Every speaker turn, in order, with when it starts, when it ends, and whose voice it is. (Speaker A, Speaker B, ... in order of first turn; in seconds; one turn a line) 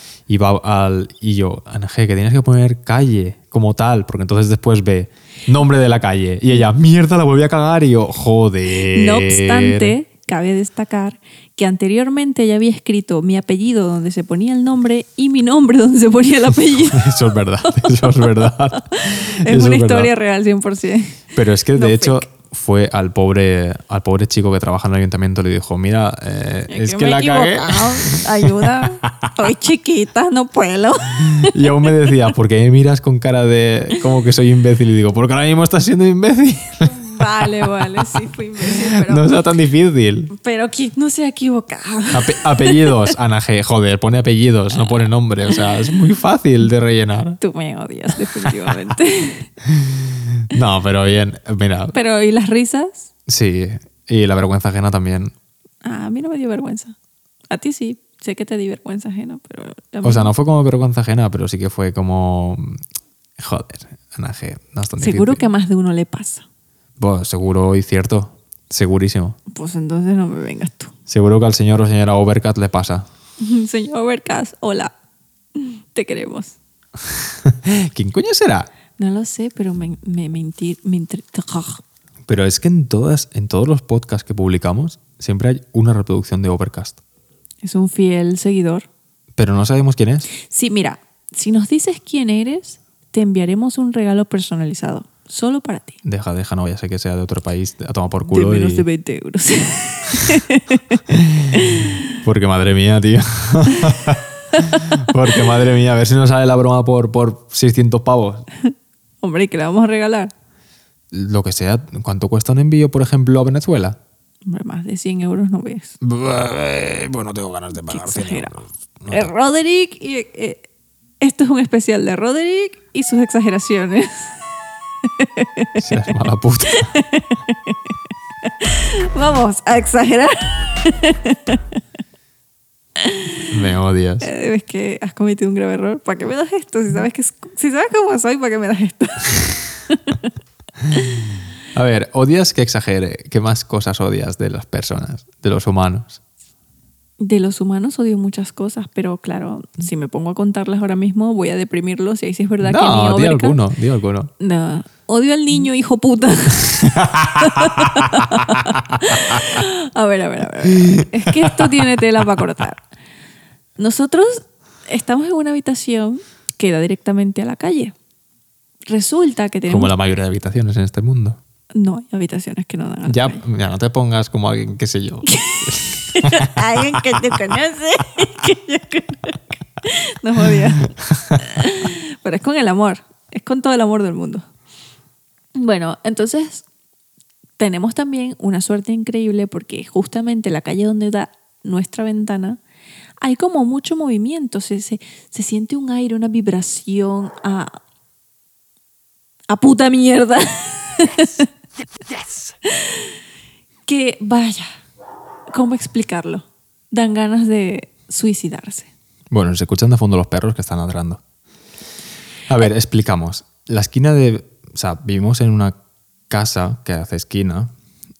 Speaker A: 0.3-10.0
Speaker B: 8.9-17.1
Speaker A: 16.9-20.1
Speaker B: 18.7-21.2
Speaker A: 21.3-29.3
Speaker B: 21.8-22.3
Speaker B: 26.7-31.6
Speaker A: 31.2-38.1
Speaker B: 36.8-39.3
Speaker A: 38.7-40.3
Speaker B: 40.3-43.1
Speaker A: 42.1-47.4
Speaker B: 47.4-49.5
Speaker A: 48.4-48.8
Speaker A: 49.6-51.9
Speaker B: 51.9-53.1
Speaker A: 53.3-55.3
Speaker B: 55.8-56.9
Speaker B: 57.5-60.3
Speaker A: 60.0-62.8
Speaker A: 63.4-65.4
Speaker B: 65.0-66.4
Speaker A: 67.0-69.4
Speaker B: 69.5-70.9
Speaker A: 71.1-73.1
Speaker B: 73.4-74.9
Speaker B: 75.5-76.6
Speaker A: 77.0-78.7
Speaker B: 79.0-81.8
Speaker A: 82.2-87.0
Speaker B: 87.6-88.9
Speaker A: 89.4-90.3
Speaker B: 90.4-96.0
Speaker A: 96.0-98.9
Speaker B: 98.2-102.1
Speaker A: 101.2-108.5
Speaker B: 104.8-105.4
Speaker B: 109.2-110.3
Speaker A: 111.1-114.0
Speaker B: 114.5-116.0
Speaker A: 116.0-119.3
Speaker B: 117.9-118.5
Speaker B: 119.1-120.7
Speaker B: 121.2-124.4
Speaker B: 125.0-125.9
Speaker A: 125.8-127.0
Speaker B: 126.7-127.8
Speaker B: 128.4-131.6
Speaker B: 133.0-133.5
Speaker A: 133.5-134.3
Speaker B: 134.2-140.3
Speaker A: 141.7-146.2
Speaker B: 147.2-153.6
Speaker A: 152.6-154.3
Speaker B: 154.4-162.8
Speaker A: 156.7-159.6
Speaker A: 160.8-161.7
Speaker B: 163.8-167.9
Speaker B: 168.9-169.9
Speaker A: 169.7-171.4
Speaker B: 171.8-173.4
Speaker A: 173.1-177.5
Speaker B: 175.2-184.4
Speaker A: 181.1-181.4
Speaker B: 185.6-186.7
Speaker B: 187.6-192.6
Speaker B: 193.2-197.8
Speaker B: 199.5-201.5
Speaker B: 202.7-203.1
Speaker B: 203.9-204.7
Speaker B: 205.5-208.9
Speaker A: 209.3-211.2
Speaker A: 212.5-215.8
Speaker A: 216.3-217.7